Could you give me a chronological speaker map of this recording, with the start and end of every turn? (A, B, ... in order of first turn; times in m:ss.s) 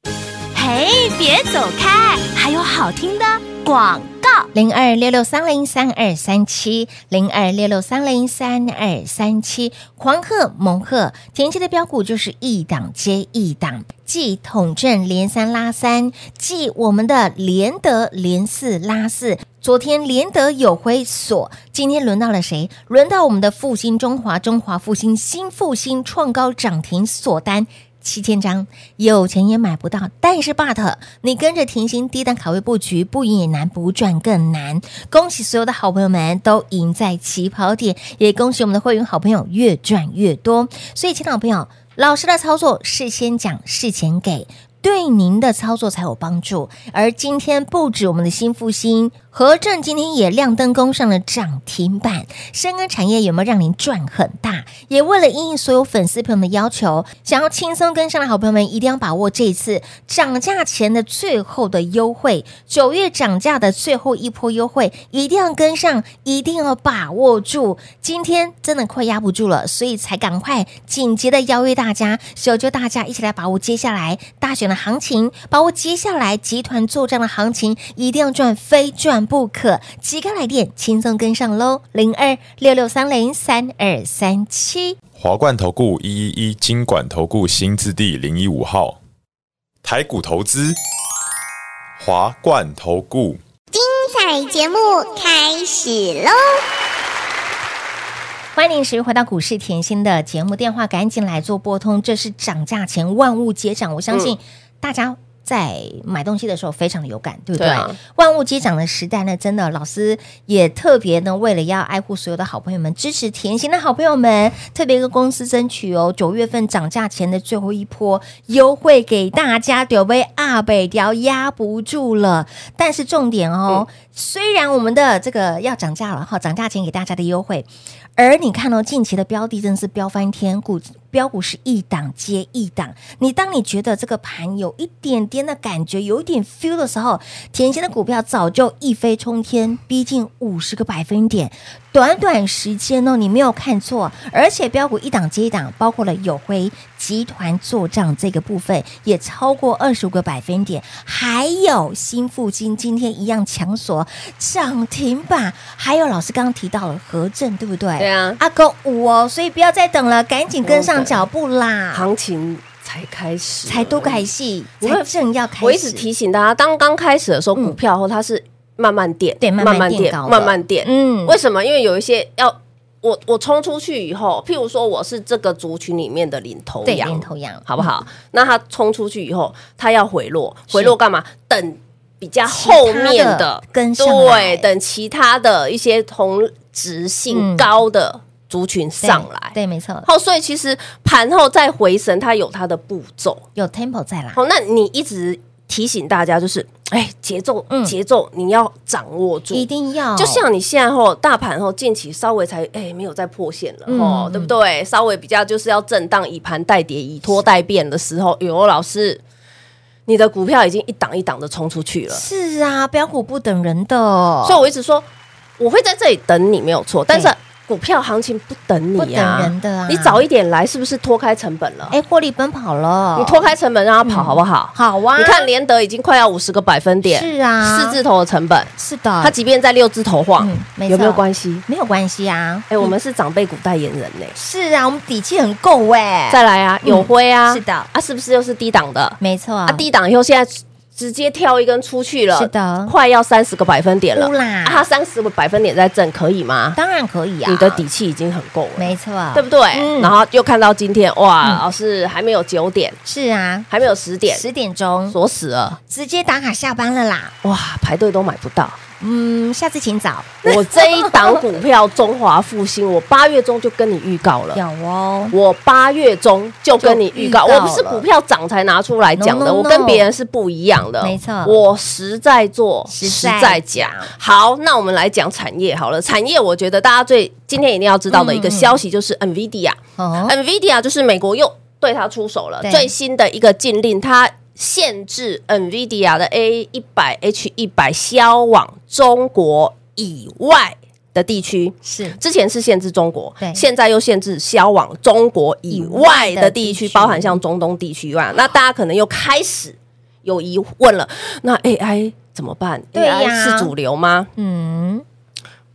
0:00.5-0:04.5 A
0:04.5-1:25.0 B
1:25.1-1:29.0 C
1:29.8-1:30.8 C
1:32.0-1:33.4 C
1:33.7-1:36.4 D
1:38.5-2:42.1 B
1:47.6-1:48.0 E
2:38.0-2:38.4 E
2:40.6-2:41.3 E
2:41.9-2:44.3 E
2:43.6-2:46.0 B
2:44.8-3:13.4 E
2:49.4-2:51.4 B
2:56.8-2:57.9 B
3:00.7-3:01.0 B
3:02.5-3:04.7 B
3:07.3-3:07.7 B
3:09.0-3:10.1 B
3:13.5-3:14.4 B
3:14.3-3:29.2 E
3:17.7-3:18.0 B
3:19.5-3:20.5 B
3:23.9-3:24.5 B
3:30.1-3:32.2 E
3:32.1-3:34.7 B
3:34.4-3:35.1 E
3:35.6-3:42.0 E
3:39.0-3:40.2 B
3:41.9-3:45.5 B
3:43.2-3:51.6 E
3:47.0-3:48.0 B
3:48.8-3:49.4 B
3:50.4-3:52.9 B
3:52.7-3:54.4 E
3:54.4-3:57.9 B
3:56.3-4:06.8 E
3:59.2-3:59.8 B
4:02.3-4:02.9 B
4:04.1-4:04.9 B
4:06.8-4:07.8 B
4:07.5-4:13.0 E
4:08.8-4:10.1 B
4:13.0-4:13.7 B
4:13.7-4:14.4 E
4:14.3-4:15.2 B
4:15.1-4:15.8 E
4:15.9-4:17.3 B
4:17.4-4:18.8 E
4:19.0-4:21.4 B
4:20.4-4:24.6 E
4:24.5-4:25.3 B
4:25.3-5:04.3 E
4:26.8-4:28.0 B
4:29.2-4:30.1 B
4:31.0-4:31.6 B
4:32.9-4:34.1 B
4:38.1-4:38.8 B
4:40.0-4:40.3 B
4:42.6-4:42.9 B
4:51.8-4:52.2 B
4:55.7-4:57.4 B
5:02.9-5:03.7 B
5:04.4-5:05.0 B